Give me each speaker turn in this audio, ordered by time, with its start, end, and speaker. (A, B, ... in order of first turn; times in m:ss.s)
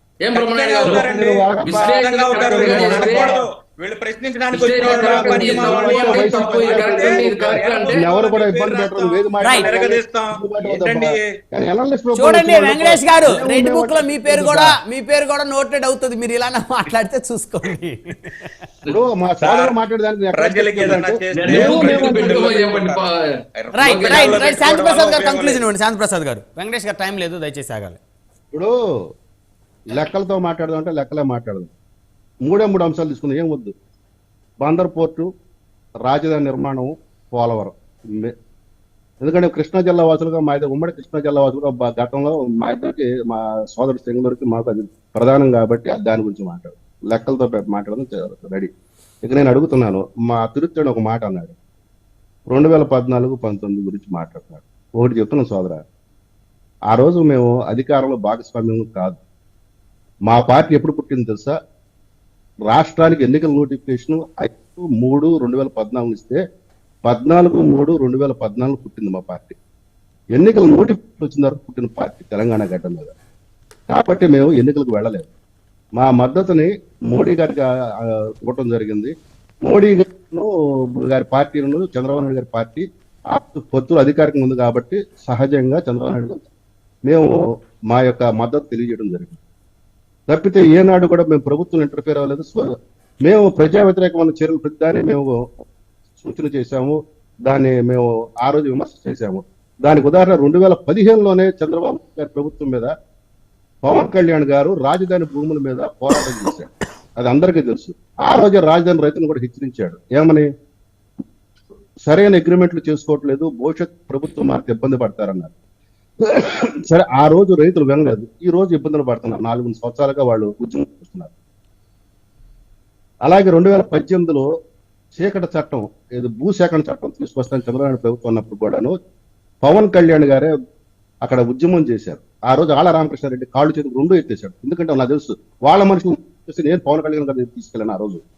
0:00.2-0:01.1 A
0:00.3-0:11.4 B
0:00.8-0:02.0 C
0:01.6-0:03.4 A
0:02.5-0:03.4 C
0:04.5-0:08.1 A
0:04.8-0:14.8 C
0:09.4-0:09.7 D
0:12.1-0:18.5 D
0:18.9-0:22.3 C
0:19.4-0:19.8 B
0:20.3-0:23.0 B
0:21.3-0:23.2 A
0:23.6-0:25.6 B
0:23.7-0:28.0 D
0:23.8-0:24.6 A
0:29.9-0:31.7 C
0:32.4-0:33.7 C
0:34.6-0:35.3 C
0:36.1-0:38.3 C
0:39.2-0:48.7 C
0:49.2-0:51.6 C
0:52.5-0:55.8 C
0:56.9-0:59.2 C
1:00.3-1:01.6 C
1:02.7-1:06.4 C
1:07.0-1:09.6 C
1:10.3-1:13.1 C
1:13.9-1:15.3 C
1:16.0-1:19.1 C
1:19.6-1:26.4 C
1:27.0-1:29.4 C
1:30.3-1:32.7 C
1:33.2-1:35.5 C
1:36.2-1:42.9 C
1:43.8-1:50.5 C
1:52.1-1:55.5 C
1:56.2-2:01.3 C
2:03.2-2:04.5 C
2:05.2-2:09.0 C
2:09.6-2:10.5 C
2:11.2-2:18.2 C